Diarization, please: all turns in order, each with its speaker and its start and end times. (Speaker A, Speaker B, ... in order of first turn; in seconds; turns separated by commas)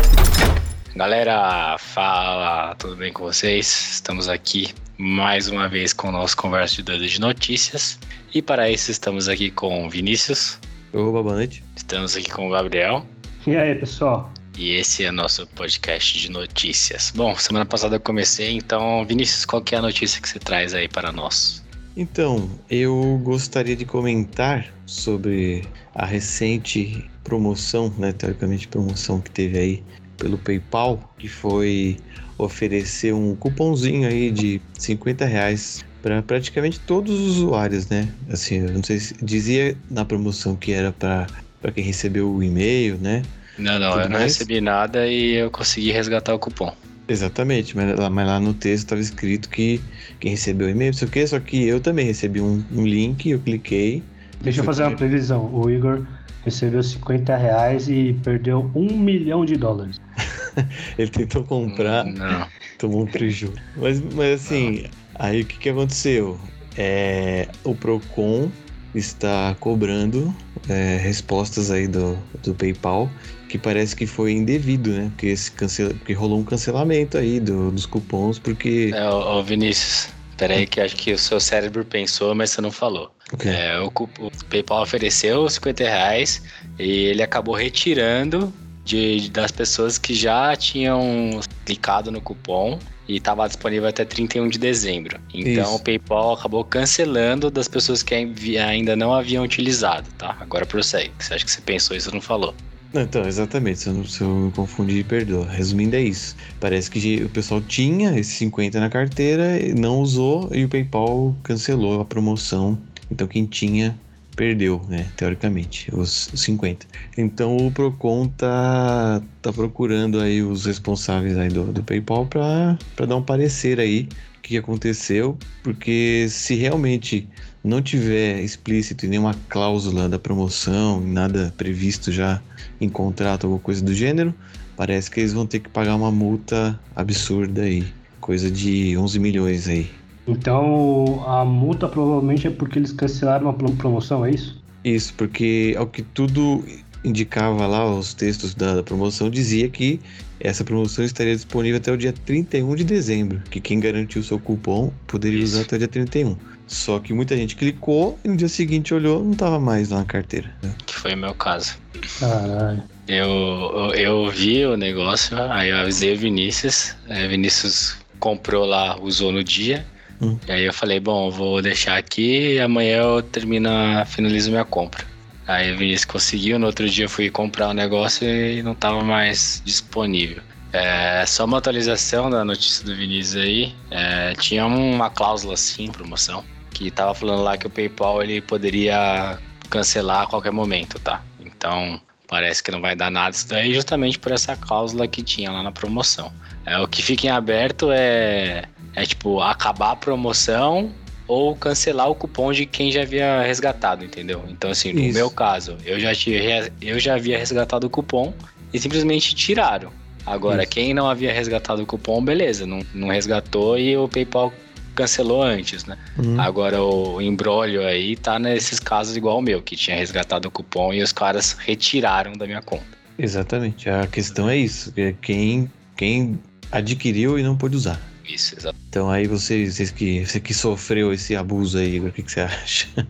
Speaker A: 0.9-10.6, Speaker B: 10.9-11.6, Speaker A: 11.8-13.1, Speaker C: 13.4-14.3, Speaker A: 14.6-21.6, Speaker B: 21.9-43.3, Speaker A: 43.6-46.7, Speaker B: 43.9-44.5, Speaker B: 47.1-55.0, Speaker C: 54.4-60.0, Speaker B: 60.5-62.1, Speaker A: 61.7-62.5, Speaker B: 62.8-79.0, Speaker A: 64.4-64.7, Speaker A: 78.9-102.6, Speaker B: 83.3-83.6, Speaker B: 95.4-95.8, Speaker B: 102.9-140.0, Speaker C: 140.3-144.6, Speaker B: 144.8-160.8, Speaker A: 155.3-155.7, Speaker A: 160.8-161.8, Speaker C: 162.2-162.8, Speaker A: 163.1-169.9, Speaker A: 170.5-222.9, Speaker B: 204.9-205.3, Speaker B: 210.4-210.7, Speaker B: 216.2-216.5, Speaker B: 223.2-228.1, Speaker A: 224.3-224.6, Speaker A: 228.2-228.7, Speaker B: 228.9-232.9